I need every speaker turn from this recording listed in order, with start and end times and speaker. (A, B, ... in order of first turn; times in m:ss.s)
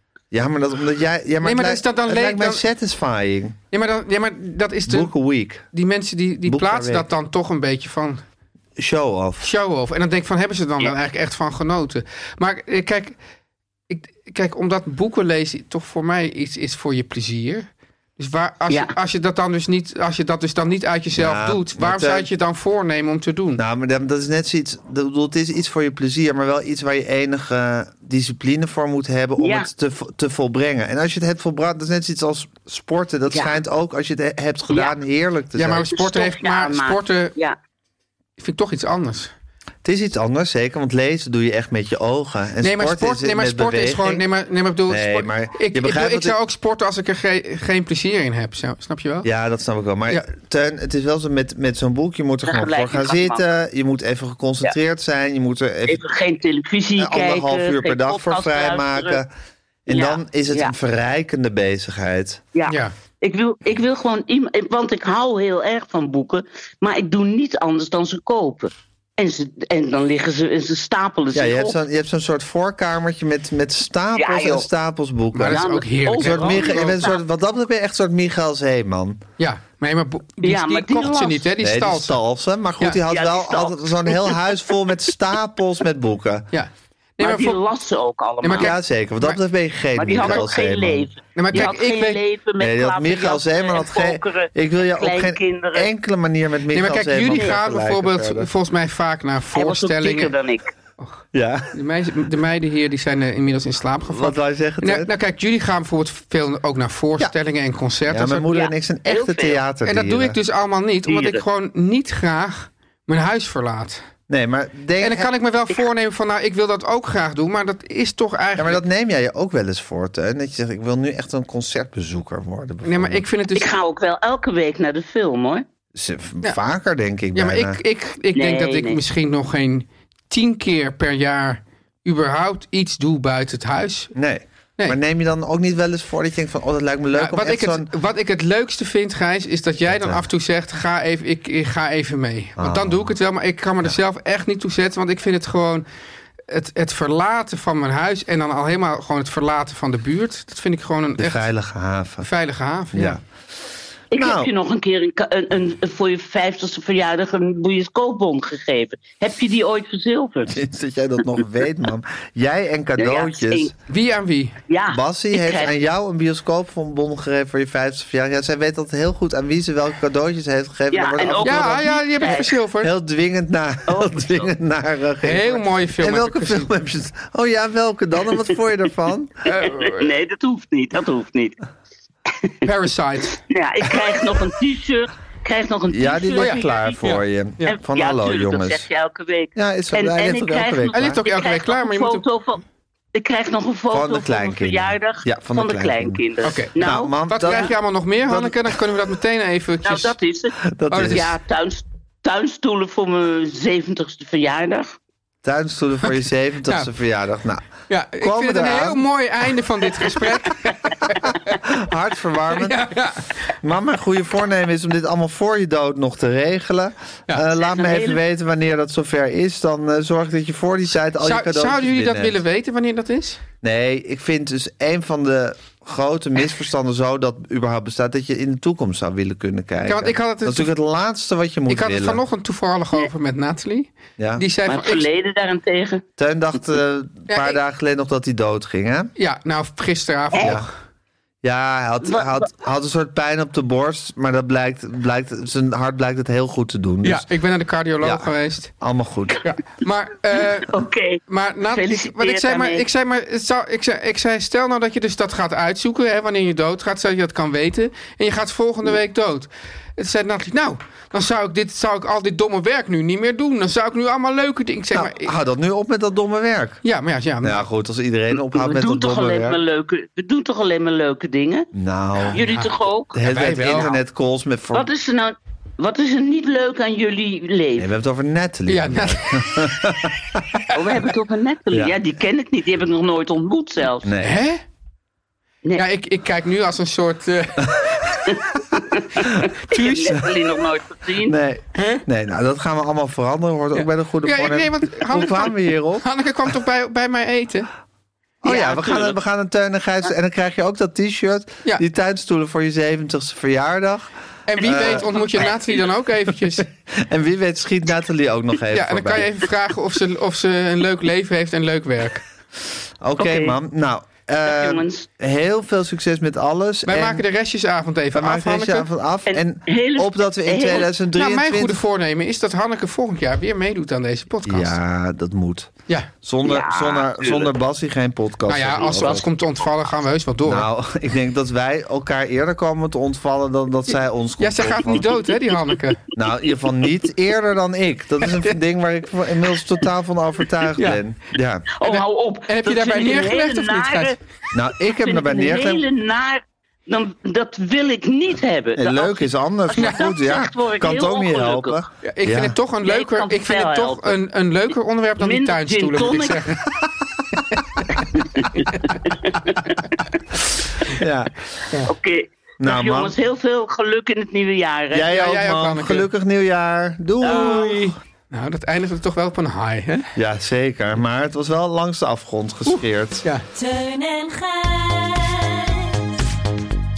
0:00.3-0:03.6 A
0:01.4-0:02.6 B
0:03.7-0:05.1 B
0:04.9-0:05.7 A
0:05.7-0:08.2 B
0:06.4-0:07.1 A
0:08.8-0:09.5 A
0:09.4-0:13.2 B
0:13.9-0:23.6 B
0:21.1-0:22.3 A
0:23.6-0:35.9 A
0:29.4-0:29.7 C
0:33.3-0:33.6 C
0:35.5-0:37.3 B
0:35.9-0:37.6 C
0:38.4-0:39.3 B
0:39.8-0:44.2 A
0:42.6-0:49.3 B
0:44.9-0:46.4 A
0:49.2-0:56.0 A
0:52.4-0:53.4 C
0:55.9-0:59.2 C
0:57.0-0:59.3 A
0:59.8-1:02.4 A
0:59.9-1:00.7 C
1:02.5-1:11.8 C
1:02.7-1:02.9 B
1:11.3-1:15.6 A
1:14.2-1:14.7 C
1:15.3-1:17.0 B
1:15.4-1:17.2 C
1:16.2-1:19.2 A
1:19.4-1:22.2 B
1:20.4-1:21.5 C
1:21.6-1:26.5 A
1:23.0-1:24.4 C
1:26.5-1:27.6 B
1:27.2-1:28.7 C
1:28.4-1:29.4 B
1:28.6-1:31.7 A
1:29.9-1:35.9 C
1:30.2-1:30.4 B
1:31.3-1:32.2 B
1:32.6-1:38.5 A
1:36.7-1:40.3 B
1:37.3-1:37.5 C
1:39.5-1:40.7 C
1:41.3-1:41.7 A
1:41.7-1:48.5 B
1:44.1-1:45.1 A
1:48.1-1:50.4 A
1:48.5-1:49.6 C
1:49.8-1:54.0 B
1:51.1-1:51.4 C
1:54.3-1:55.3 A
1:55.0-1:58.8 B
1:58.6-2:03.2 A
2:02.8-2:03.7 B
2:03.5-2:05.6 C
2:05.9-2:07.8 A
2:07.3-2:14.1 B
2:08.3-2:09.0 C
2:14.1-2:17.9 A
2:17.1-2:25.8 B
2:19.9-2:20.2 A
2:22.6-2:23.1 A
2:26.5-2:31.4 B
2:31.2-2:32.3 A
2:32.2-2:33.2 B
2:32.9-2:33.2 A
2:34.1-2:40.5 C
2:34.1-2:34.5 A
2:40.5-2:43.7 A
2:43.0-2:43.7 C
2:43.9-2:44.6 B
2:44.7-2:45.7 C
2:44.9-2:52.2 A
2:50.9-2:52.6 C
2:51.4-2:52.9 B
2:52.8-2:59.4 A
2:53.9-2:54.5 C
2:55.2-2:56.7 B
2:59.4-3:00.1 B
2:59.5-3:01.6 C
3:02.4-3:02.7 C
3:02.6-3:03.4 B
3:03.4-3:07.0 C
3:05.9-3:08.9 A
3:06.4-3:07.8 B
3:07.7-3:12.6 C
3:09.5-3:11.2 A
3:10.9-3:12.2 B
3:13.1-3:17.7 C
3:13.9-3:16.2 A
3:16.4-3:20.2 B
3:16.7-3:18.8 A
3:19.8-3:20.5 C
3:20.6-3:21.3 A
3:20.9-3:21.2 B
3:21.1-3:25.0 C
3:25.4-3:29.1 A
3:27.9-3:31.6 B
3:31.1-3:32.9 A
3:32.5-3:33.4 B
3:33.6-3:42.4 A
3:37.8-3:38.2 C
3:41.2-3:43.4 B
3:43.6-3:52.2 A
3:49.8-3:50.7 B
3:51.7-3:55.1 B
3:54.2-3:54.4 A
3:54.6-3:56.0 C
3:56.2-3:59.1 A
3:57.3-3:57.6 B
3:59.2-4:00.7 B
4:00.3-4:00.6 C
4:00.4-4:00.7 A
4:01.4-4:07.3 A
4:02.0-4:02.3 C
4:07.0-4:08.7 B
4:08.0-4:09.4 A
4:09.4-4:10.7 B
4:10.4-4:12.8 C
4:11.3-4:25.3 B
4:24.9-4:26.8 A
4:26.8-4:27.7 B
4:27.4-4:29.6 A
4:28.3-4:31.7 C
4:31.7-4:32.5 A
4:32.2-4:32.7 B
4:32.3-4:33.9 C
4:33.1-4:34.9 A
4:33.2-4:34.0 B
4:34.7-4:37.9 C
4:37.8-4:40.4 A
4:38.7-4:39.7 B
4:40.7-4:44.1 C
4:41.7-4:42.0 A
4:44.0-4:44.4 A
4:44.2-4:44.6 B
4:45.8-4:48.3 B
4:48.3-4:51.3 C
4:49.2-4:50.2 B
4:51.2-4:56.0 A
4:51.7-4:52.0 B
4:53.7-4:57.7 B
4:58.4-5:05.1 A
4:58.4-4:59.1 B
5:04.5-5:06.7 B
5:06.9-5:09.3 A
5:08.7-5:12.2 B
5:13.0-5:17.2 A
5:13.2-5:13.5 C
5:14.4-5:15.1 C
5:16.8-5:18.9 B
5:18.1-5:21.8 A
5:19.3-5:20.9 C
5:21.1-5:24.8 B
5:24.4-5:29.2 A
5:26.4-5:27.5 C
5:28.5-5:30.7 B
5:28.8-5:29.2 C
5:30.4-5:35.1 A
5:34.4-5:36.0 B
5:36.1-5:41.7 A
5:38.2-5:38.6 B
5:40.8-5:41.0 B
5:41.7-5:44.2 C
5:41.8-5:44.2 B
5:44.5-5:45.8 A
5:44.9-5:51.8 C
5:48.8-5:52.6 A
5:52.0-5:56.6 B
5:52.8-5:54.2 C
5:55.2-5:56.4 C
5:57.5-5:59.4 B
5:58.0-6:00.0 C
6:00.9-6:01.4 A
6:01.8-6:05.1 C
6:02.6-6:03.1 A
6:04.9-6:07.9 A
6:05.1-6:06.1 B
6:07.2-6:10.1 B
6:07.2-6:07.6 C
6:10.1-6:13.2 A
6:12.6-6:13.4 B
6:13.5-6:16.2 D